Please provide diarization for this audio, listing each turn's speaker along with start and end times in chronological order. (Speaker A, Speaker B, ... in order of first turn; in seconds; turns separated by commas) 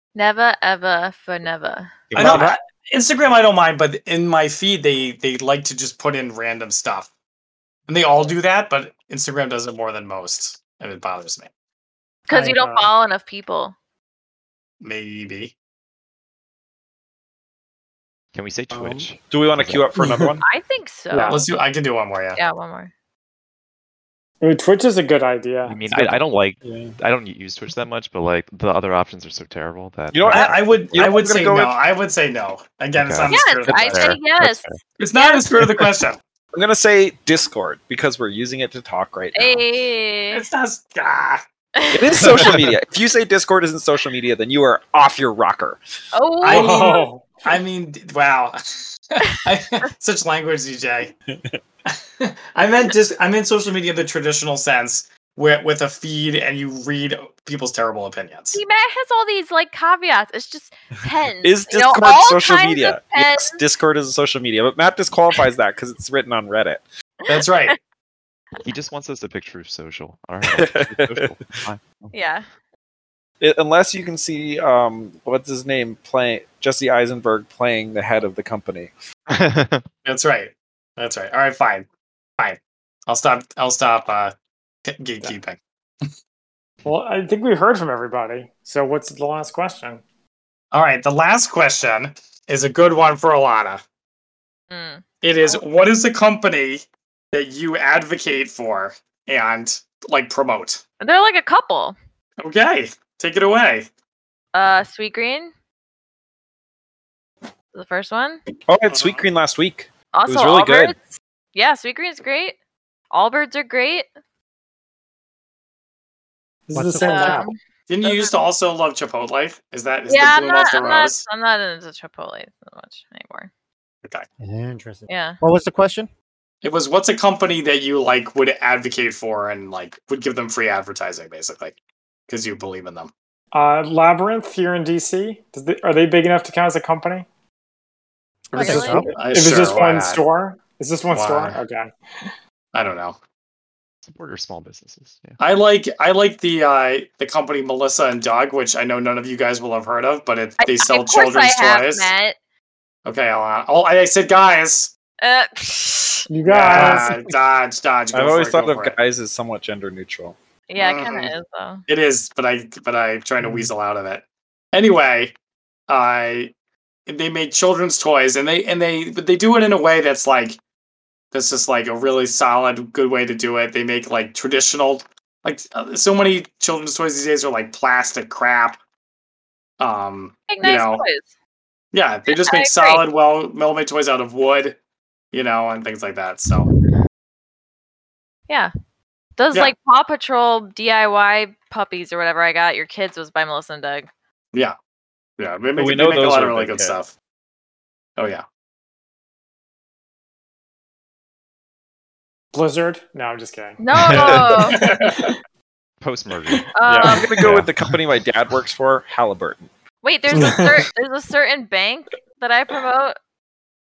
Speaker A: 0.1-1.9, Speaker B: 2.1-2.5, Speaker C: 2.1-7.1, Speaker D: 2.2-2.6, Speaker C: 7.9-11.5, Speaker A: 12.3-13.7, Speaker D: 12.3-12.9, Speaker C: 14.8-15.5, Speaker B: 18.3-19.9, Speaker E: 18.7-20.4, Speaker D: 19.9-20.4, Speaker A: 20.4-21.4, Speaker D: 21.1-21.4, Speaker C: 21.3-22.4, Speaker A: 22.4-22.9, Speaker D: 24.4-25.8, Speaker B: 25.7-31.2, Speaker E: 26.6-26.9, Speaker E: 30.1-31.8, Speaker C: 30.3-34.0, Speaker B: 33.0-34.8, Speaker A: 33.3-34.6, Speaker C: 35.0-36.2, Speaker E: 36.5-39.6, Speaker A: 39.3-40.4, Speaker C: 40.3-41.4, Speaker A: 41.8-42.4, Speaker E: 41.9-45.8, Speaker B: 42.3-42.6, Speaker A: 46.1-47.1, Speaker C: 46.4-48.6, Speaker D: 46.4-47.5, Speaker C: 49.1-51.1, Speaker E: 51.3-51.6, Speaker C: 51.9-58.6, Speaker A: 58.5-63.6, Speaker E: 61.4-66.8, Speaker A: 67.2-67.7, Speaker C: 67.3-67.8, Speaker B: 68.6-72.1, Speaker E: 70.4-71.2, Speaker A: 72.1-72.4, Speaker E: 73.4-78.9, Speaker B: 79.3-79.8, Speaker C: 80.0-81.8, Speaker C: 82.4-84.3, Speaker C: 84.8-85.6, Speaker D: 86.8-90.0, Speaker C: 90.7-93.8, Speaker A: 94.7-95.6, Speaker C: 95.2-100.8, Speaker A: 101.0-102.0, Speaker C: 102.4-103.9, Speaker A: 104.5-105.5, Speaker A: 107.7-108.4, Speaker E: 108.7-110.9, Speaker C: 108.9-109.3, Speaker A: 110.1-112.5, Speaker A: 113.1-114.1, Speaker D: 116.7-117.5, Speaker F: 116.7-117.4, Speaker A: 117.0-118.3, Speaker C: 117.9-121.2, Speaker A: 120.1-123.5, Speaker F: 124.4-126.1, Speaker A: 125.1-125.4, Speaker C: 126.6-131.8, Speaker C: 132.3-133.1, Speaker D: 133.5-137.2, Speaker D: 138.5-141.9, Speaker F: 138.5-139.2, Speaker A: 138.5-139.1, Speaker C: 139.1-140.2, Speaker C: 141.1-141.6, Speaker C: 142.7-143.2, Speaker B: 144.0-145.4, Speaker C: 145.4-152.1, Speaker A: 150.6-152.3, Speaker C: 153.1-154.9, Speaker A: 155.2-156.3, Speaker D: 156.3-157.3, Speaker E: 156.5-157.1, Speaker C: 156.5-158.9, Speaker E: 158.1-160.3, Speaker A: 160.7-161.8, Speaker C: 160.8-161.3, Speaker C: 161.9-165.3, Speaker C: 165.9-166.5, Speaker C: 167.1-170.6, Speaker C: 171.3-178.8, Speaker C: 179.8-181.0, Speaker A: 180.5-181.3, Speaker C: 181.9-184.8, Speaker A: 182.3-183.0, Speaker C: 185.3-186.7, Speaker A: 189.4-194.1, Speaker C: 195.4-197.1, Speaker E: 195.8-197.0, Speaker C: 198.2-198.4, Speaker D: 202.5-203.8, Speaker A: 203.8-204.8, Speaker C: 204.1-205.2, Speaker D: 204.7-205.3, Speaker B: 206.0-208.0, Speaker A: 206.7-207.3, Speaker E: 206.9-209.7, Speaker A: 210.0-213.2, Speaker D: 210.3-210.9